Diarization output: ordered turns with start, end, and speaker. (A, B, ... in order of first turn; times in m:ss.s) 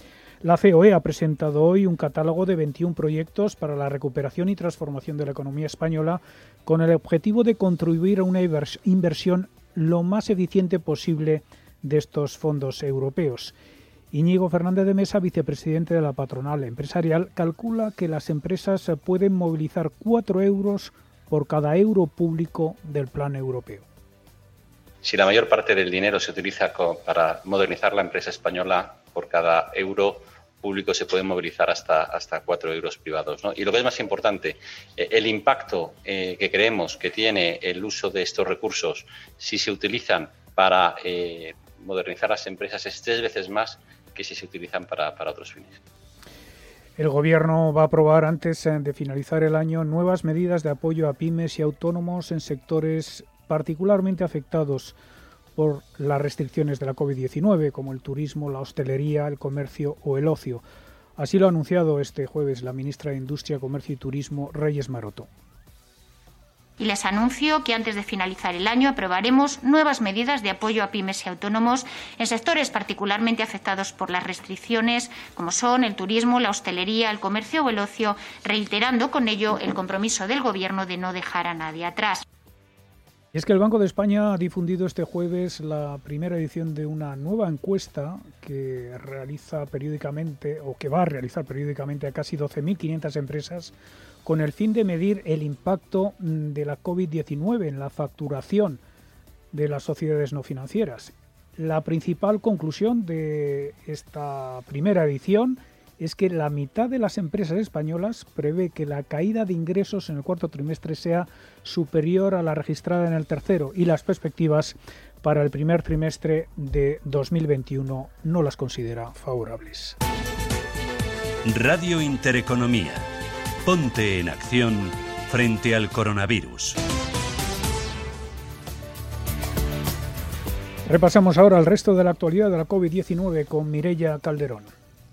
0:00.4-0:13.5 A
0:14.1-0:23.8 A
0:25.0-0:45.8 B
0:47.0-0:55.0 A
0:55.6-1:00.6 A
1:01.2-1:05.3 A
1:06.8-1:22.2 C
1:23.3-1:33.7 A
1:34.2-1:38.8 A
1:39.5-2:00.0 A
2:01.4-2:03.1 D
2:03.6-2:06.8 D
2:10.9-2:14.7 A